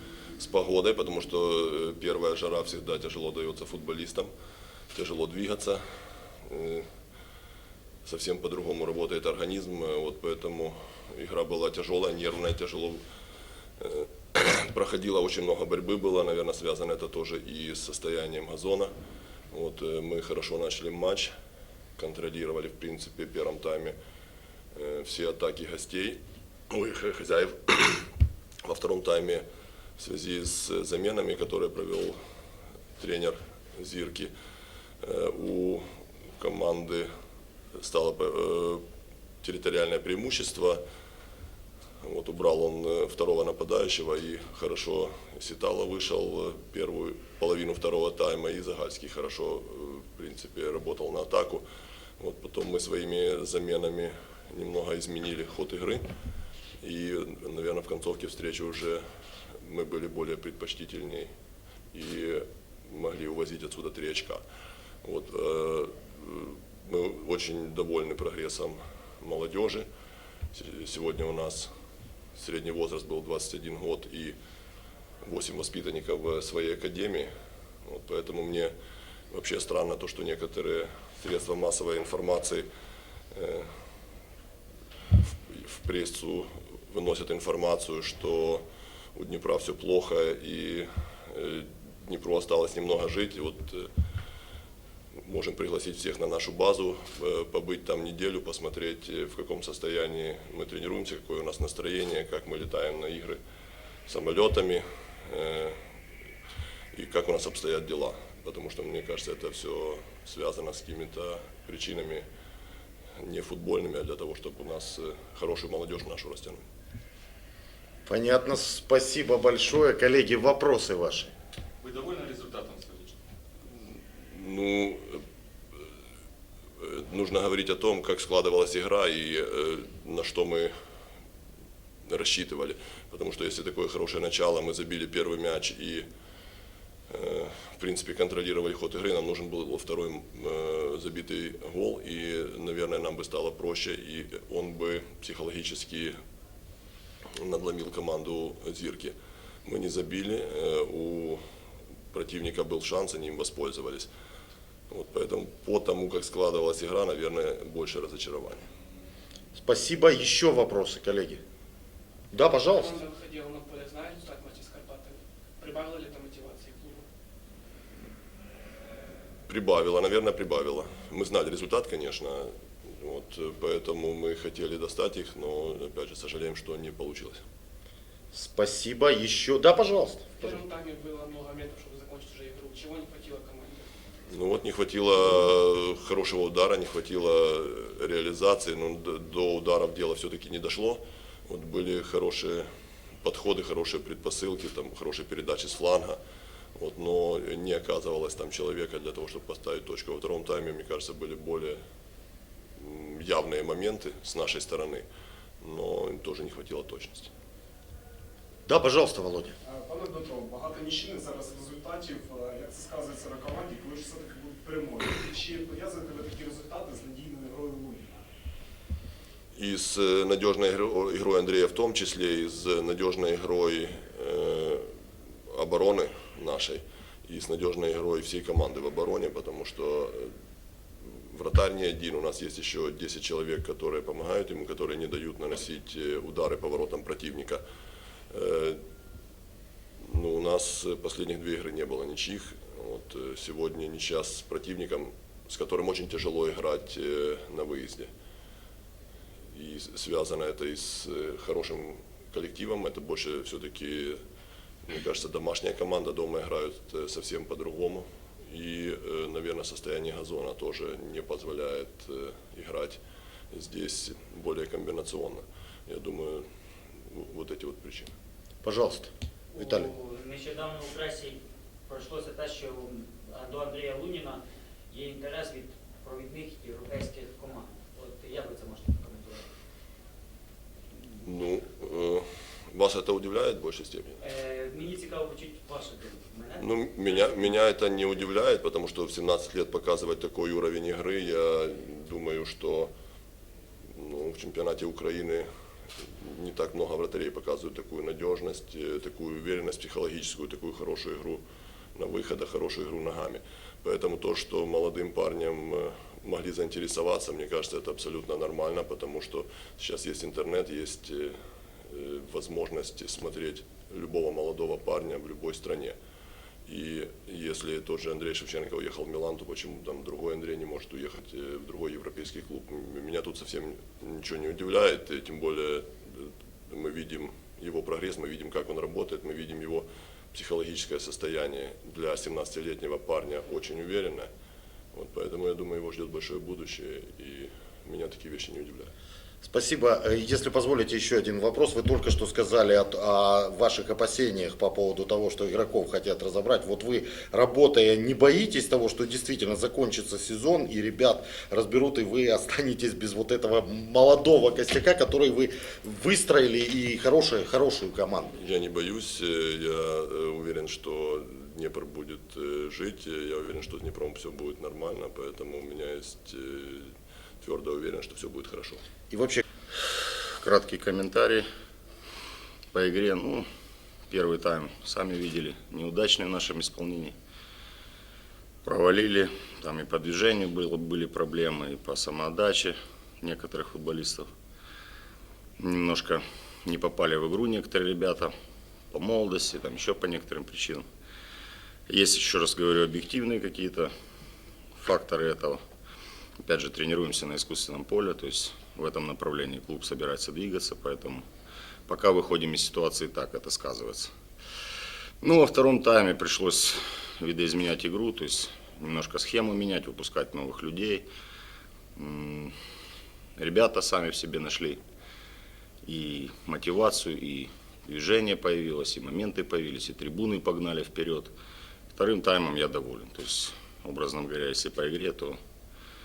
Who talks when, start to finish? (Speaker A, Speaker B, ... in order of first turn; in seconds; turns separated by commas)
Speaker A: 0.4-4.3, Speaker A: 4.9-5.8, Speaker A: 6.4-6.9, Speaker A: 8.1-13.0, Speaker A: 13.8-18.9, Speaker A: 19.5-21.3, Speaker A: 22.0-23.9, Speaker A: 24.8-26.2, Speaker A: 26.7-28.1, Speaker A: 28.6-29.4, Speaker A: 30.0-32.2, Speaker A: 33.0-34.3, Speaker A: 35.0-35.9, Speaker A: 36.4-37.1, Speaker A: 37.8-38.8, Speaker A: 39.4-40.8, Speaker A: 42.0-51.6, Speaker A: 52.2-56.0, Speaker A: 56.8-59.0, Speaker A: 59.6-61.3, Speaker A: 61.9-64.4, Speaker A: 65.0-69.9, Speaker A: 70.5-71.7, Speaker A: 72.4-74.3, Speaker A: 75.2-77.3, Speaker A: 77.8-78.7, Speaker A: 79.3-82.7, Speaker A: 83.3-83.7, Speaker A: 85.5-88.6, Speaker A: 89.2-93.9, Speaker A: 95.2-103.4, Speaker A: 104.1-105.8, Speaker A: 106.9-112.2, Speaker A: 113.2-116.6, Speaker B: 118.1-121.3, Speaker A: 124.2-125.2, Speaker A: 126.8-130.7, Speaker A: 132.1-136.1, Speaker A: 137.1-146.2, Speaker A: 147.4-149.1, Speaker A: 149.7-151.4, Speaker A: 152.1-154.1, Speaker A: 154.9-158.7, Speaker B: 159.6-161.4, Speaker B: 162.3-162.9, Speaker C: 162.5-167.0, Speaker A: 169.5-177.4, Speaker B: 178.3-180.6, Speaker C: 180.4-183.9, Speaker A: 184.3-192.7, Speaker A: 193.2-196.2, Speaker A: 196.8-201.8, Speaker A: 202.8-205.0, Speaker A: 205.6-207.3, Speaker B: 208.7-209.6, Speaker D: 209.7-218.2, Speaker A: 219.5-224.9, Speaker A: 225.5-230.3, Speaker A: 231.3-237.6, Speaker A: 238.3-238.8, Speaker A: 240.0-248.1, Speaker A: 249.5-254.2, Speaker A: 254.9-263.0, Speaker A: 263.5-266.4, Speaker A: 267.1-268.1, Speaker B: 268.6-269.9, Speaker E: 269.6-279.5, Speaker A: 281.1-284.2, Speaker E: 284.2-287.5, Speaker A: 286.6-292.9, Speaker A: 293.9-295.5, Speaker A: 296.0-301.4, Speaker A: 302.0-311.4, Speaker A: 311.9-316.0, Speaker A: 316.7-334.3, Speaker A: 334.9-338.9, Speaker B: 339.4-358.3, Speaker A: 358.4-368.8, Speaker B: 369.1-369.4, Speaker F: 370.3-371.4, Speaker F: 372.7-373.4, Speaker F: 374.1-377.1, Speaker F: 378.6-384.3, Speaker F: 385.6-388.3, Speaker F: 388.9-390.9, Speaker F: 391.9-393.9, Speaker F: 394.8-395.6, Speaker F: 396.4-401.2, Speaker F: 401.9-404.1, Speaker F: 405.2-411.1, Speaker F: 412.0-412.5, Speaker F: 413.4-414.8, Speaker F: 415.8-421.3, Speaker F: 421.9-425.4